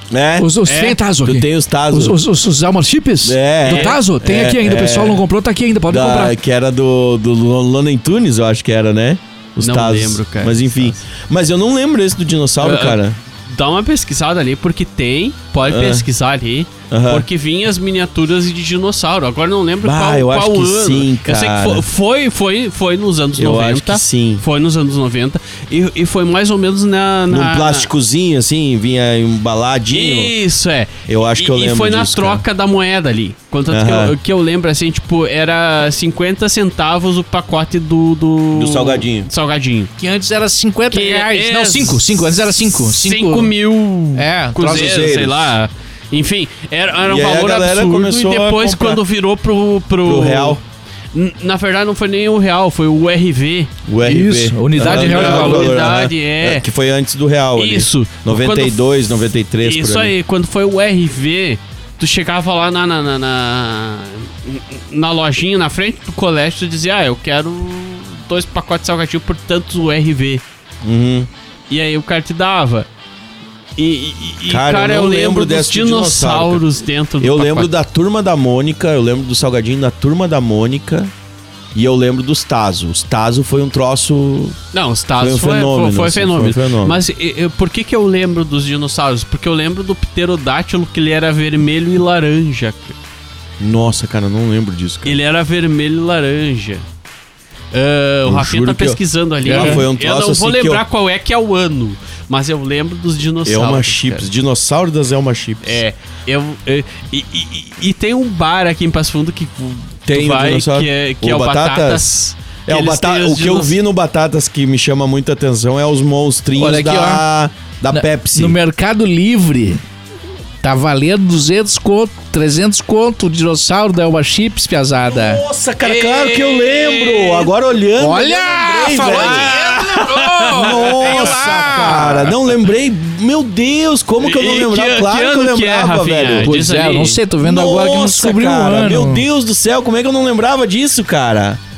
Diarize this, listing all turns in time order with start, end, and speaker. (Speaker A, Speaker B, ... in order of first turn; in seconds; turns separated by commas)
Speaker A: 0.1-0.5, Speaker B: 0.4-6.3, Speaker C: 0.7-1.0, Speaker A: 1.2-2.2, Speaker A: 3.2-5.2, Speaker C: 3.6-4.0, Speaker A: 5.9-13.2, Speaker C: 9.6-11.0, Speaker C: 12.6-27.9, Speaker A: 15.6-16.1, Speaker A: 16.9-17.2, Speaker A: 19.8-21.8, Speaker A: 23.4-24.4, Speaker A: 27.3-30.3, Speaker C: 29.9-39.9, Speaker A: 31.1-32.4, Speaker A: 33.7-34.1, Speaker A: 38.5-39.3, Speaker B: 40.0-43.5, Speaker C: 40.9-50.6, Speaker B: 44.1-45.0, Speaker A: 44.6-45.5, Speaker A: 47.0-49.0, Speaker A: 50.0-50.6, Speaker C: 51.1-53.7, Speaker A: 53.9-60.1, Speaker B: 54.0-55.9, Speaker C: 54.8-56.6, Speaker C: 57.5-59.0, Speaker C: 59.6-70.4, Speaker A: 70.8-71.3, Speaker C: 71.7-72.9, Speaker C: 73.8-77.7, Speaker A: 74.5-76.6, Speaker A: 77.2-81.1, Speaker A: 81.7-84.6, Speaker C: 84.7-93.0, Speaker A: 85.2-87.0, Speaker A: 93.6-95.2, Speaker C: 95.0-96.8, Speaker C: 97.7-104.2, Speaker A: 98.2-100.8, Speaker B: 99.5-99.8, Speaker A: 103.4-105.8, Speaker C: 105.6-113.8, Speaker A: 110.1-112.0, Speaker A: 112.7-118.6, Speaker B: 116.5-117.2, Speaker B: 117.9-119.8, Speaker B: 120.6-125.4, Speaker A: 125.0-129.5, Speaker C: 125.8-127.5, Speaker B: 128.0-132.3, Speaker C: 129.0-132.2, Speaker A: 130.5-136.6, Speaker C: 134.2-137.2, Speaker B: 136.4-139.2, Speaker A: 137.4-141.6